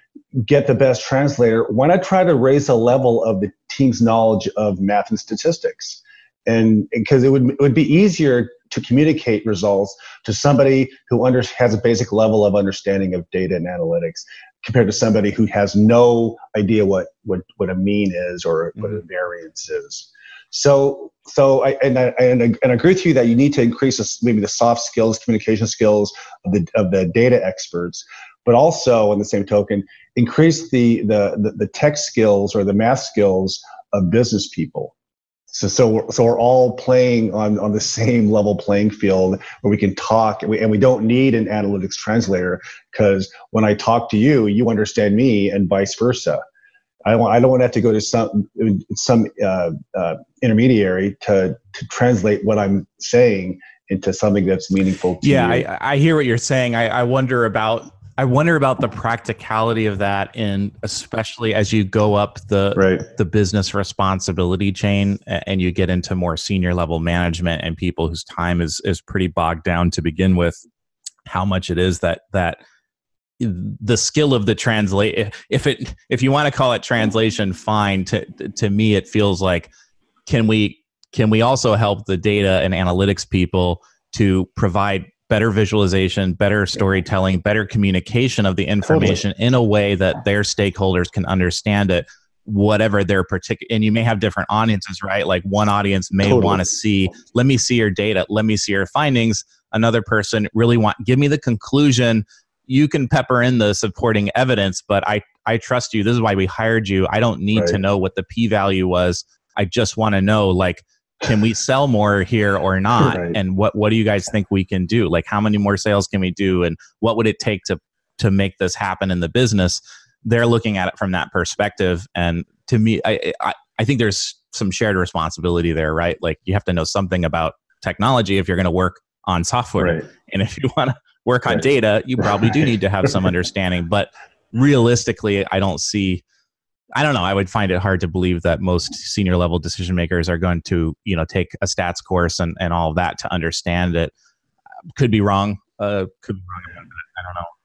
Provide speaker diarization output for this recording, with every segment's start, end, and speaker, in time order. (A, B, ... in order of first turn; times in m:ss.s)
0:00.3-0:34.9 A
0:35.5-0:46.4 A
0:47.0-0:55.7 A
0:55.2-1:10.6 B
1:02.8-1:03.0 A
1:11.2-1:12.6 B
1:13.4-1:19.7 B
1:20.2-2:16.2 B
1:28.9-1:29.2 A
1:36.2-1:36.6 A
1:53.0-1:53.4 A
2:09.8-2:10.1 A
2:16.9-2:24.1 B
2:25.0-2:27.5 B